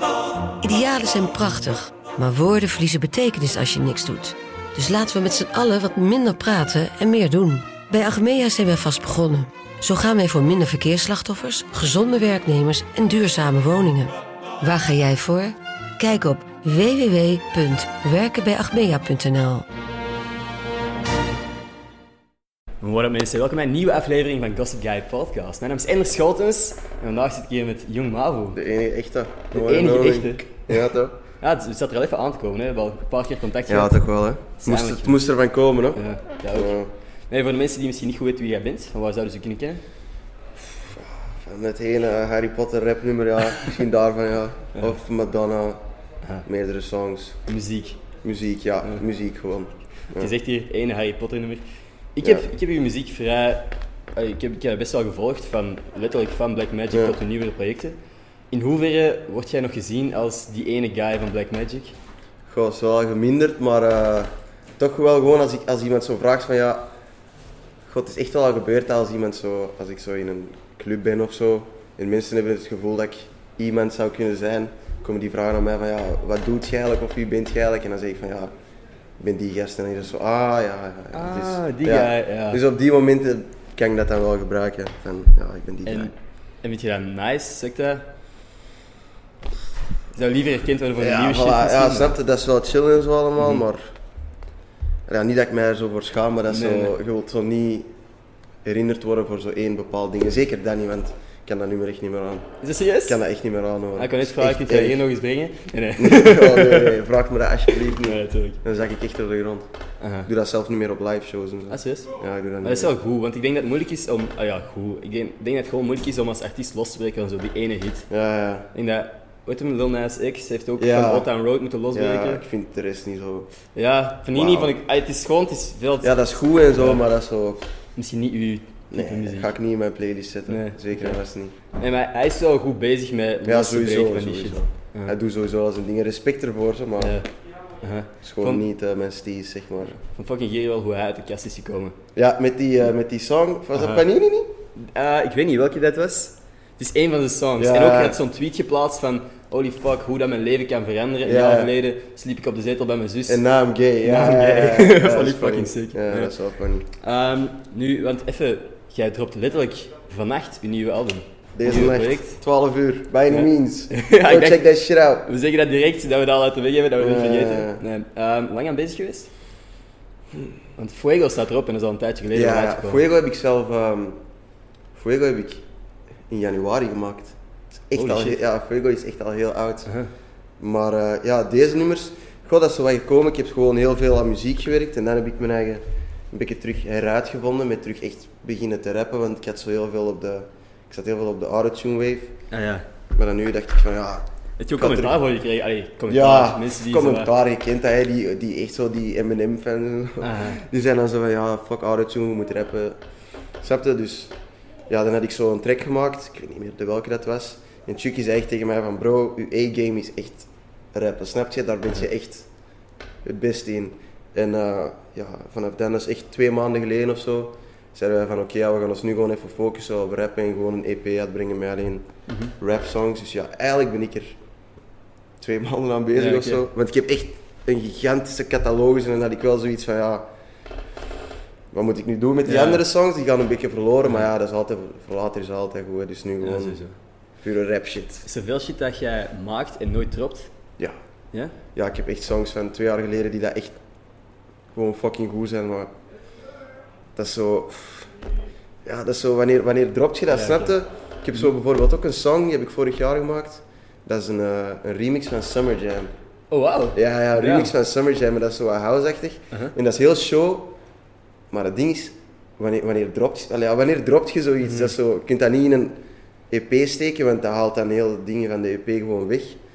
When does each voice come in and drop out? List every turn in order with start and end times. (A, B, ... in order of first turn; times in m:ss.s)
0:00.5-0:19.6 A
0:22.8-0:28.6 B
0:28.5-0:31.2 C
0:29.5-0:30.8 B
0:31.4-0:34.0 B
0:33.7-0:36.0 C
0:34.6-0:35.2 B
0:36.0-0:36.8 B
0:36.5-0:36.9 C
0:37.3-0:39.8 B
0:40.6-0:45.8 C
0:46.4-0:47.4 C
0:47.5-0:48.0 B
0:48.2-0:50.3 C
0:50.2-0:51.6 B
0:52.2-0:58.0 B
0:56.9-0:57.2 C
0:58.5-1:02.0 B
1:02.5-1:06.9 C
1:07.9-1:18.5 C
1:19.2-1:26.1 C
1:21.1-1:22.6 B
1:25.8-1:28.1 B
1:30.1-1:32.2 B
1:31.0-1:33.9 C
1:35.1-1:37.9 C
1:36.5-1:37.0 B
1:38.6-1:42.5 C
1:42.6-1:43.2 B
1:43.0-1:45.0 C
1:44.0-1:47.0 B
1:46.0-1:49.7 C
1:47.9-1:48.6 B
1:50.0-1:50.3 B
1:50.3-1:52.9 C
1:51.7-1:52.1 B
1:52.6-1:58.1 B
1:58.1-1:58.7 C
1:58.7-2:02.4 B
2:00.8-2:01.3 C
2:01.9-2:03.5 C
2:03.7-2:07.0 B
2:04.3-2:04.8 C
2:06.0-2:07.7 C
2:08.0-2:09.5 B
2:08.9-2:11.6 C
2:10.5-2:11.2 B
2:11.7-2:15.2 B
2:13.4-2:17.2 C
2:17.0-2:18.7 B
2:18.2-2:19.9 C
2:19.8-2:22.0 B
2:22.2-2:24.5 C
2:23.8-2:24.0 B
2:24.8-2:33.4 B
2:27.6-2:28.2 C
2:31.2-2:31.7 C
2:33.3-2:36.9 C
2:34.0-2:36.3 B
2:37.0-2:42.4 B
2:41.6-2:45.3 C
2:43.3-2:44.7 B
2:45.2-2:49.3 B
2:47.0-2:47.8 C
2:50.8-2:53.0 B
2:52.3-2:54.2 C
2:54.9-2:55.6 C
2:56.3-2:57.4 C
2:57.9-2:59.9 C
2:57.9-2:58.4 B
2:59.9-3:00.1 B
3:00.6-3:12.4 C
3:12.5-3:12.8 B
3:13.1-3:14.2 C
3:14.6-3:17.4 B
3:14.8-3:15.2 C
3:16.1-3:23.0 C
3:20.2-3:20.6 B
3:23.6-3:24.3 C
3:24.9-3:32.5 C
3:33.2-3:42.1 C
3:42.3-3:42.5 B
3:42.6-3:44.4 C
3:45.4-3:50.3 C
3:46.2-3:46.6 B
3:51.7-3:56.8 C
3:52.4-3:52.8 B
3:56.4-3:57.0 B
3:57.4-3:58.3 C
3:58.2-4:00.5 B
4:01.7-4:03.8 C
4:04.7-4:05.9 C
4:07.2-4:08.1 C
4:08.8-4:16.1 C
4:10.3-4:10.7 B
4:16.5-4:17.7 B
4:16.9-4:20.8 C
4:21.5-4:29.6 C